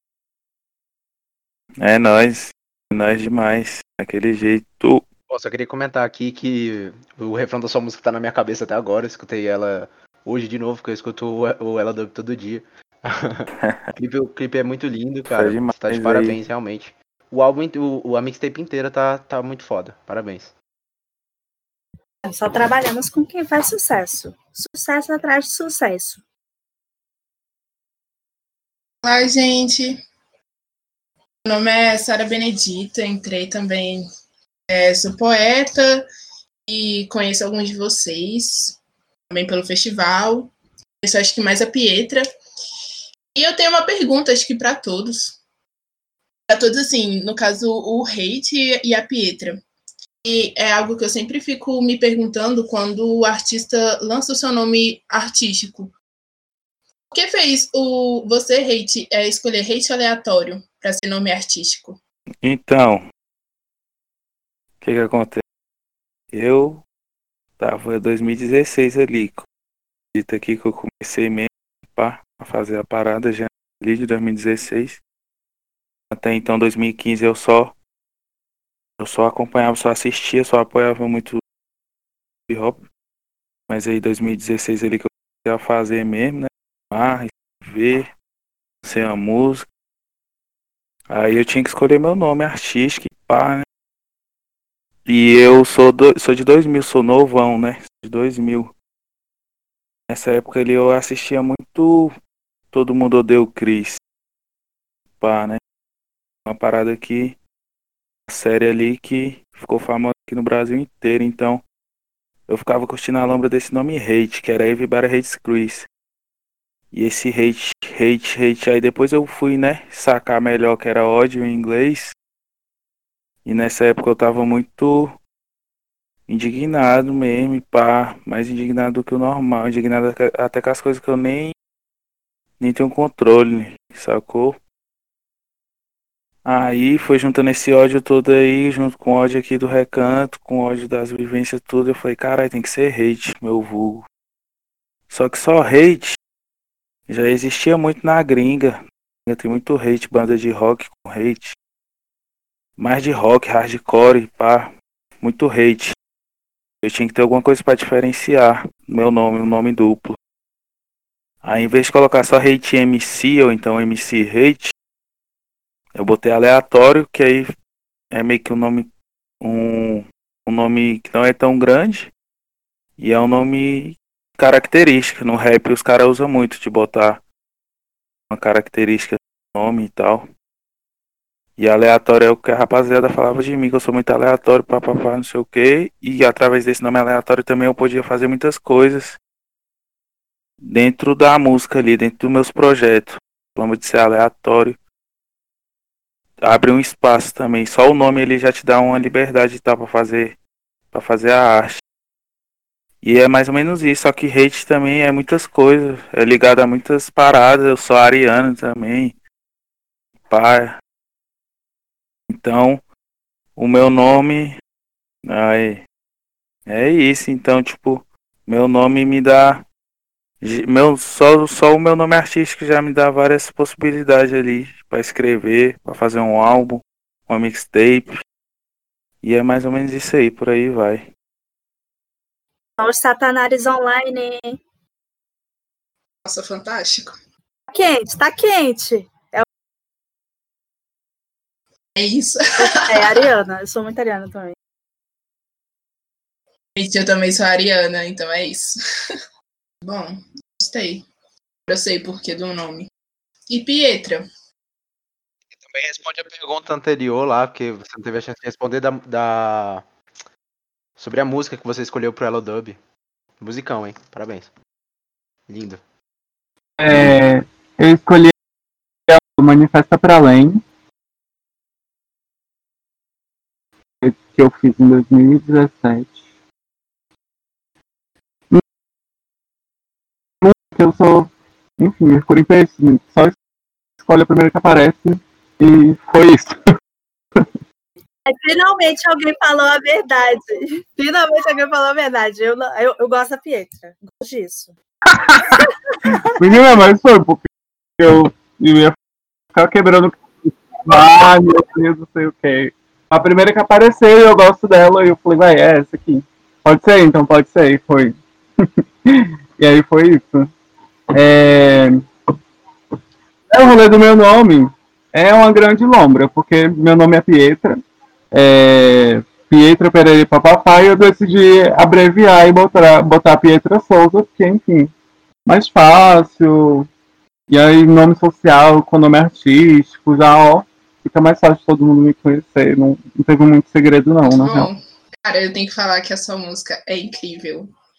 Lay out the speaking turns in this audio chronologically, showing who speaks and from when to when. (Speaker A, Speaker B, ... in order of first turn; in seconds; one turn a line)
Speaker A: 1.8-5.0
Speaker B: 5.3-20.5
Speaker A: 13.6-13.9
Speaker A: 15.3-16.4
Speaker C: 22.2-26.2
Speaker D: 29.0-30.0
Speaker D: 31.4-34.1
Speaker D: 34.7-36.0
Speaker D: 36.7-38.8
Speaker D: 39.3-42.2
Speaker D: 43.4-45.4
Speaker D: 46.5-49.6
Speaker D: 50.2-55.9
Speaker D: 57.1-62.0
Speaker A: 62.4-63.0
Speaker A: 64.8-65.4
Speaker A: 66.3-66.8
Speaker A: 67.6-69.4
Speaker A: 70.1-75.0
Speaker A: 76.1-77.7
Speaker A: 79.0-81.4
Speaker A: 82.5-82.8
Speaker A: 83.7-88.1
Speaker A: 88.8-89.7
Speaker A: 91.1-93.7
Speaker A: 95.0-98.7
Speaker A: 100.1-102.1
Speaker A: 102.7-104.0
Speaker A: 105.2-105.6
Speaker A: 106.5-107.4
Speaker A: 108.3-111.6
Speaker A: 112.5-115.9
Speaker A: 116.9-122.1
Speaker A: 123.4-125.2
Speaker A: 126.3-131.5
Speaker A: 132.6-134.6
Speaker A: 136.4-144.0
Speaker A: 145.1-146.2
Speaker A: 147.1-151.5
Speaker A: 152.8-155.9
Speaker A: 156.8-160.2
Speaker A: 161.4-164.7
Speaker A: 165.9-167.5
Speaker A: 168.1-168.9
Speaker A: 169.4-172.1
Speaker A: 173.0-177.2
Speaker A: 178.3-180.3
Speaker A: 181.6-189.2
Speaker A: 190.6-194.8
Speaker A: 196.4-200.4
Speaker A: 200.9-201.8
Speaker A: 203.0-209.2
Speaker A: 210.3-210.8
Speaker A: 212.3-212.8
Speaker A: 213.6-214.6
Speaker A: 215.2-215.8
Speaker A: 216.7-219.6
Speaker A: 220.4-228.2
Speaker A: 229.2-231.1
Speaker C: 232.8-234.6
Speaker D: 236.2-237.1
Speaker C: 237.7-239.4
Speaker D: 242.0-243.2
Speaker C: 242.6-244.5
Speaker D: 246.8-248.7
Speaker D: 249.8-251.1
Speaker D: 251.7-252.9
Speaker D: 253.5-254.2
Speaker B: 255.5-259.9
Speaker B: 261.0-262.8
Speaker B: 263.4-264.5
Speaker B: 265.5-265.8
Speaker E: 266.8-268.3
Speaker E: 269.1-270.6
Speaker E: 274.0-276.1
Speaker E: 280.4-283.3
Speaker E: 284.0-286.6
Speaker C: 288.2-294.7
Speaker E: 295.1-297.5
Speaker E: 298.0-298.9
Speaker E: 299.5-310.5
Speaker E: 311.1-312.0
Speaker E: 313.5-317.8
Speaker E: 318.3-324.9
Speaker E: 325.4-326.9
Speaker E: 327.5-334.7
Speaker D: 334.3-337.7